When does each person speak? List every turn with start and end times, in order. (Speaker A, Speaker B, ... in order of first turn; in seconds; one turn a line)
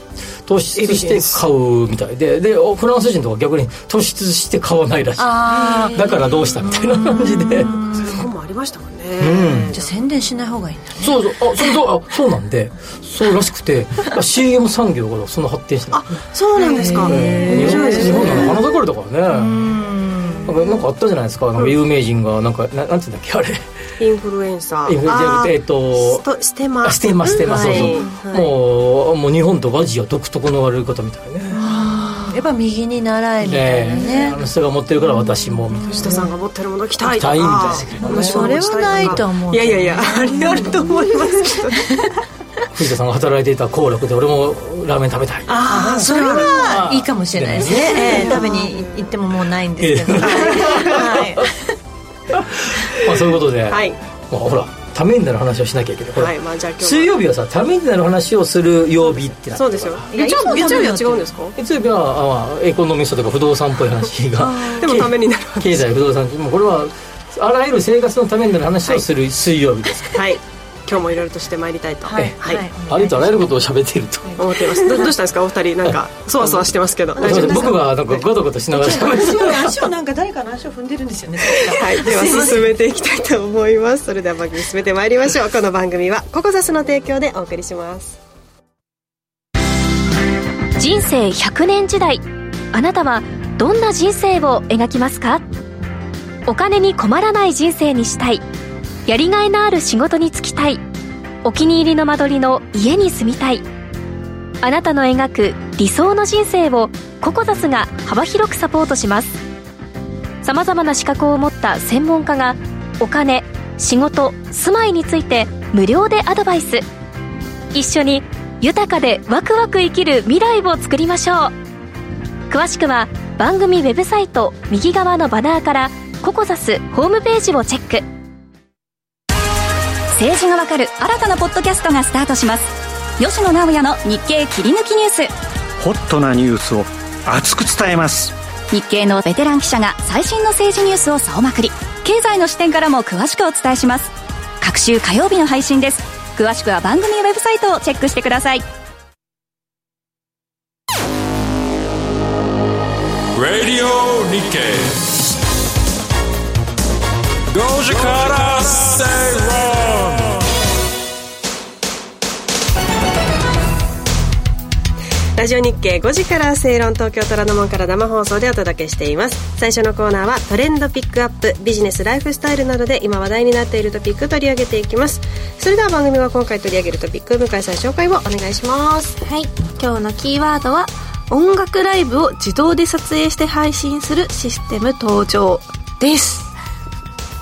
Speaker A: 0.5-7.7
Speaker B: 0.8-1.4
Speaker C: 5.2-8.3
Speaker B: 7.7-10.0
Speaker A: 9.2-9.7
Speaker C: 9.7-11.7
Speaker A: 11.0-16.1
Speaker B: 15.9-18.6
Speaker C: 16.6-18.6
Speaker A: 16.8-19.7
Speaker C: 19.3-20.5
Speaker A: 20.4-23.6
Speaker B: 24.0-28.5
Speaker A: 24.9-26.2
Speaker A: 26.8-31.6
Speaker C: 27.4-28.1
Speaker D: 31.6-32.4
Speaker C: 31.6-34.4
Speaker A: 33.4-36.1
Speaker C: 35.7-36.3
Speaker B: 35.9-41.9
Speaker A: 37.0-39.2
Speaker C: 38.0-40.8
Speaker A: 42.7-48.4
Speaker B: 45.5-46.8
Speaker C: 45.6-51.6
Speaker B: 47.8-48.8
Speaker A: 49.8-51.5
Speaker B: 50.3-50.9
Speaker A: 52.3-60.1
Speaker B: 53.7-54.0
Speaker B: 56.1-57.2
Speaker B: 59.5-61.6
Speaker C: 60.1-61.3
Speaker A: 61.6-70.2
Speaker B: 64.5-65.9
Speaker B: 70.1-72.6
Speaker C: 72.1-73.7
Speaker A: 72.2-74.4
Speaker C: 74.2-75.1
Speaker B: 74.4-78.3
Speaker A: 77.2-79.7
Speaker C: 77.2-77.6
Speaker C: 78.8-82.8
Speaker B: 81.4-88.2
Speaker E: 90.8-95.4
Speaker E: 96.5-98.4
Speaker E: 99.1-100.8
Speaker E: 101.4-103.6
Speaker E: 104.6-109.4
Speaker E: 110.4-116.8
Speaker E: 117.7-121.5
Speaker E: 122.5-128.0
Speaker F: 130.1-135.3
Speaker G: 135.8-138.3
Speaker F: 138.7-148.7
Speaker H: 153.3-155.1
Speaker H: 157.5-160.4
Speaker B: 165.4-179.2
Speaker D: 179.2-186.5